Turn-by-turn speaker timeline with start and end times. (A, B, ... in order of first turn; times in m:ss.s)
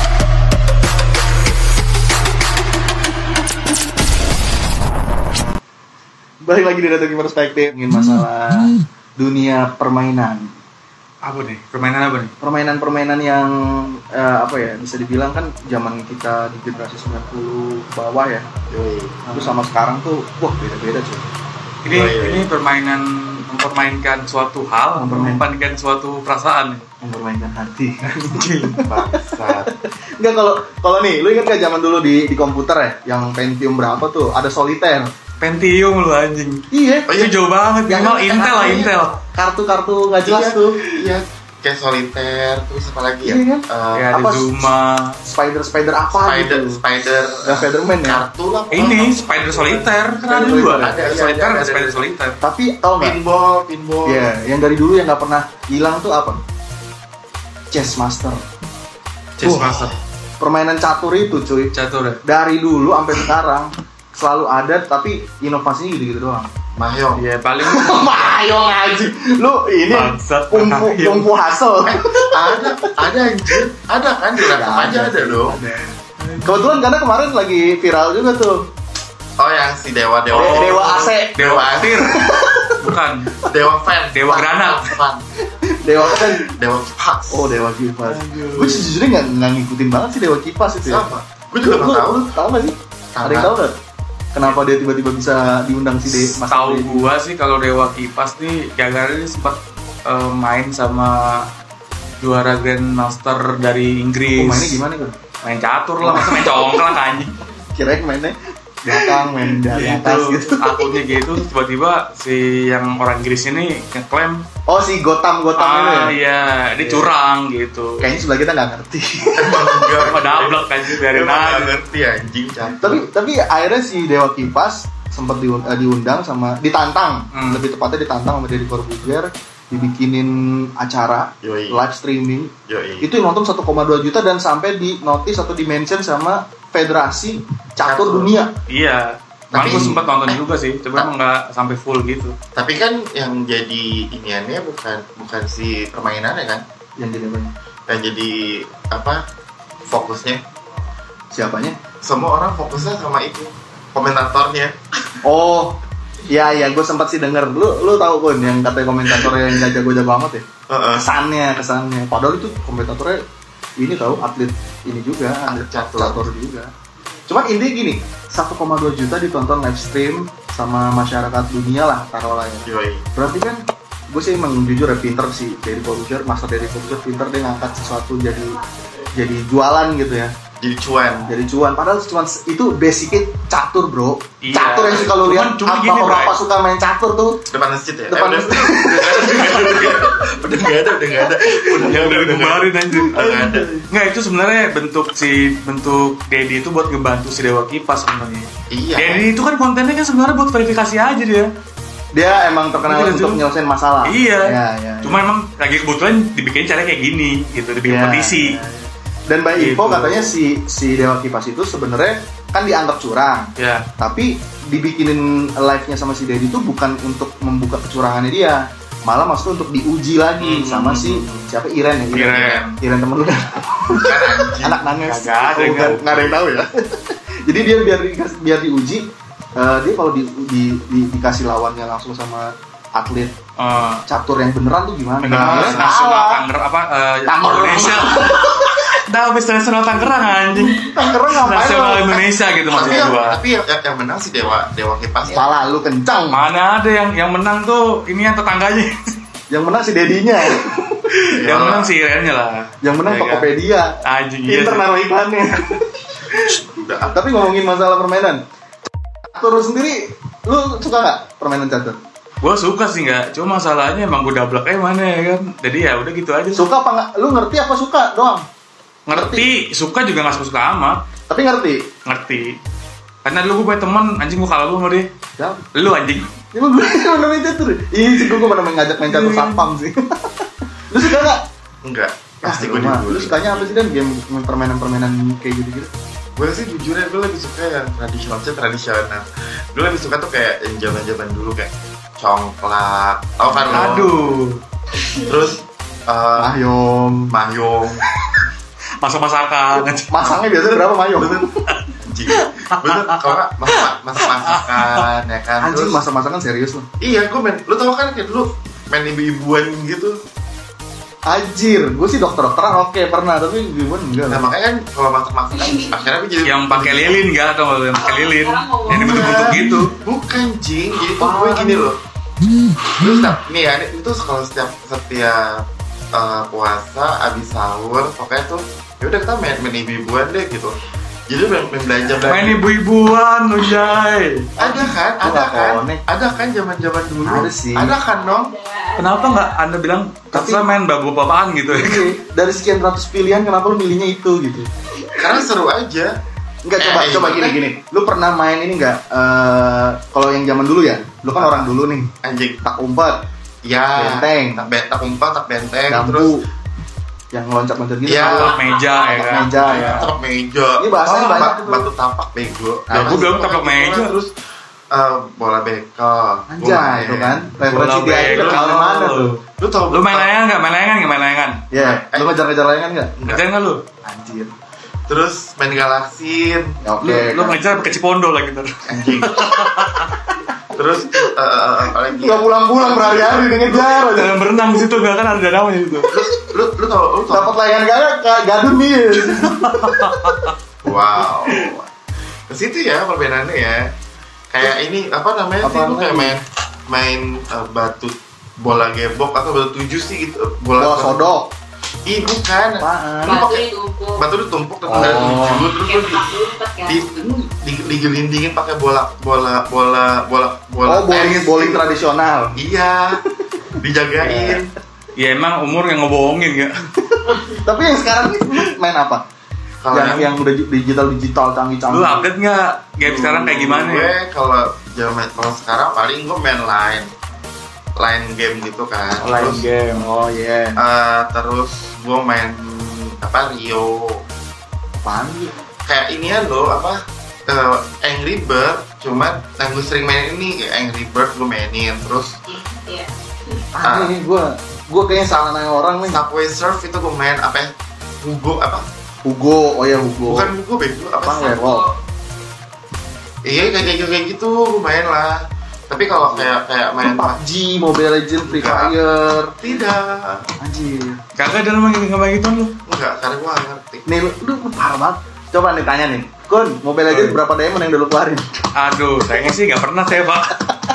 0:06.4-0:10.5 A
0:11.2-0:12.3 B
0:12.4-0:18.5 A
0:18.7-0:19.2 C
0:19.2-0:21.3 A
0:21.8-0:26.8 B
0:21.9-0:22.4 C
0:25.0-0:25.4 A
0:27.0-0:35.1 A
0:28.2-0:28.8 B
0:28.8-0:29.7 C
0:35.4-0:39.2 B
0:36.7-0:37.1 A
0:37.1-0:37.4 C
0:37.9-0:40.9 A
0:40.2-0:44.1 C
0:43.2-0:44.7 A
0:43.9-0:45.2 B
0:45.2-0:48.2 A
0:46.1-0:49.6 C
0:48.7-0:52.4 B
0:50.3-0:51.0 A
0:50.8-0:52.1 C
0:52.4-0:53.2 A
0:53.0-0:54.3 C
0:54.0-0:56.4 A
0:57.7-0:58.4 A
0:59.4-1:00.0 B
0:59.4-0:59.8 A
1:00.4-1:01.7 A
1:01.7-1:02.2 B
1:02.2-1:06.5 A
1:06.8-1:07.2 C
1:07.1-1:08.5 B
1:07.6-1:13.6 A
1:09.9-1:11.4 B
1:11.8-1:15.6 C
1:14.4-1:18.6 A
1:16.2-1:16.8 B
1:19.4-1:22.0 C
1:20.3-1:23.3 B
1:20.4-1:22.8 A
1:23.5-1:25.2 C
1:24.1-1:24.9 B
1:25.8-1:26.5 A
1:26.1-1:27.6 C
1:27.3-1:31.1 A
1:28.0-1:28.9 B
1:30.8-1:32.4 C
1:31.6-1:33.8 A
1:33.1-1:33.6 C
1:34.3-1:37.1 A
1:36.0-1:41.5 B
1:42.2-1:44.8 B
1:44.3-1:45.3 A
1:45.4-1:47.3 B
1:46.0-1:47.0 A
1:47.7-1:50.9 A
1:48.9-1:54.4 B
1:54.7-1:56.1 A
1:55.6-1:58.1 B
1:56.8-1:57.1 A
1:58.0-2:00.0 A
1:59.4-2:03.1 C
1:59.9-2:01.8 B
2:02.8-2:18.5 A
2:07.3-2:07.6 B
2:11.4-2:11.8 C
2:12.6-2:13.1 C
2:17.8-2:18.3 C
2:18.7-2:22.3 B
2:19.5-2:20.4 C
2:22.5-2:26.6 C
2:27.0-2:27.5 A
2:27.9-2:29.2 C
2:29.9-2:30.4 C
2:31.3-2:31.8 A
2:32.0-2:34.7 C
2:35.2-2:43.2 A
2:39.0-2:39.8 C
2:40.7-2:41.1 C
2:43.8-2:46.7 A
2:45.4-2:46.3 C
2:47.3-2:58.6 A
2:52.6-2:53.1 C
2:59.2-3:00.3 A
3:00.6-3:01.3 C
3:01.2-3:07.4 A
3:04.4-3:06.4 B
3:07.5-3:13.7 C
3:08.1-3:09.9 A
3:09.1-3:09.9 B
3:11.5-3:21.5 B
3:18.7-3:19.3 C
3:22.1-3:25.2 A
3:22.7-3:23.4 B
3:24.0-3:28.6 B
3:27.9-3:53.3 A
3:29.5-3:30.4 B
3:33.6-3:33.8 B
3:40.4-3:41.2 B
3:40.6-3:41.5 C
3:42.1-3:42.8 B
3:42.4-3:42.7 C
3:44.0-3:44.9 C
3:45.0-3:46.4 B
3:53.6-3:54.0 B
3:54.0-3:56.4 A
3:55.2-4:03.4 B
3:57.2-3:58.7 A
4:00.7-4:02.3 A
4:02.7-4:05.6 C
4:05.3-4:06.4 A
4:06.3-4:09.1 B
4:09.5-4:11.0 A
4:11.2-4:13.5 B
4:11.3-4:11.9 C
4:12.8-4:13.9 A
4:14.0-4:14.9 B
4:14.5-4:16.5 A
4:16.3-4:17.1 C
4:17.1-4:18.4 A
4:19.3-4:22.0 A
4:22.4-4:26.7 B
4:26.6-4:28.4 A
4:29.0-4:31.0 B
4:29.1-4:29.5 A
4:31.3-4:31.8 A
4:32.1-4:32.6 B
4:33.2-4:35.1 B
4:35.4-4:35.6 A
4:35.7-4:36.3 B
4:36.5-4:41.4 A
4:38.3-4:39.6 B
4:41.8-4:43.8 C
4:42.4-4:45.9 A
4:46.4-4:54.1 C
4:53.6-4:54.6 B
4:55.1-4:56.6 C
4:56.4-4:57.3 A
4:57.3-4:58.0 C
4:59.0-5:00.1 B
4:59.7-5:01.6 A
5:01.2-5:01.4 C
5:01.7-5:05.1 B
5:02.0-5:06.0 C
5:05.6-5:06.9 A
5:07.0-5:10.2 C
5:11.3-5:14.5 A
5:14.3-5:17.2 C
5:15.6-5:16.0 D
5:16.4-5:19.9 B
5:17.9-5:19.6 D
5:18.9-5:22.0 C
5:21.2-5:21.9 A
5:23.0-5:30.8 C
5:31.3-5:32.6 C
5:32.2-5:34.9 B
5:34.6-5:38.6 C
5:35.2-5:36.0 A
5:37.2-5:37.9 A
5:38.5-5:39.5 D
5:39.0-5:42.1 B
5:40.3-5:40.7 A
5:41.7-5:44.7 A
5:45.1-5:46.1 C
5:46.6-5:53.2 A
5:46.8-5:47.6 C
5:51.3-5:52.6 C
5:53.6-5:56.4 C
5:53.9-5:54.6 A
5:55.9-5:56.4 A
5:57.3-5:58.5 A
5:58.0-5:58.5 C
5:58.2-6:00.1 B
5:58.4-6:00.0 D
5:59.1-6:00.1 A
5:59.6-6:04.3 C
6:00.8-6:01.9 A
6:02.9-6:04.1 B
6:04.9-6:07.5 C
6:06.5-6:09.3 A
6:07.6-6:11.6 B
6:08.2-6:09.0 C
6:09.6-6:10.3 C
6:11.7-6:13.2 A
6:11.7-6:12.4 C
6:13.2-6:13.5 C
6:13.2-6:13.8 B
6:14.0-6:14.5 A
6:15.1-6:16.8 C
6:16.8-6:17.6 A
6:17.0-6:20.1 B
6:18.9-6:19.6 C
6:20.7-6:23.7 C
6:22.2-6:24.8 A
6:23.6-6:26.1 B
6:26.1-6:27.5 C
6:27.3-6:30.3 A
6:29.2-6:30.5 B
6:30.8-6:31.8 C
6:32.5-6:33.9 C
6:34.5-6:41.3 C
6:35.6-6:36.3 A
6:40.8-6:41.5 A
6:42.0-6:51.9 C
6:42.8-6:43.4 A
6:43.2-6:44.3 D
6:44.8-6:45.3 A
6:44.9-6:45.7 B
6:45.5-6:47.3 D
6:50.8-6:52.6 A
6:52.6-6:53.2 C
6:53.8-6:54.6 C
6:54.2-6:54.6 A
6:55.2-6:56.8 B
6:57.1-6:59.2 A
6:59.8-7:00.3 C
6:59.9-7:00.4 B
7:00.0-7:02.3 A
7:01.9-7:04.1 B
7:03.0-7:07.1 C
7:08.0-7:09.6 C
7:09.2-7:10.1 B
7:10.0-7:10.8 A
7:10.8-7:14.2 C
7:15.0-7:15.6 A
7:15.8-7:22.4 C
7:22.5-7:23.1 D
7:23.8-7:26.2 A
7:23.8-7:24.1 C
7:26.0-7:28.8 C
7:29.2-7:30.5 A
7:30.2-7:31.6 C
7:31.2-7:31.9 A
7:31.4-7:31.9 D
7:33.4-7:37.4 C
7:36.2-7:39.5 A
7:38.4-7:39.0 C
7:39.6-7:40.4 C
7:40.6-7:41.2 A
7:41.4-7:42.7 B
7:42.8-7:44.0 C
7:44.0-7:48.6 A
7:47.1-7:47.4 B
7:48.8-7:50.6 B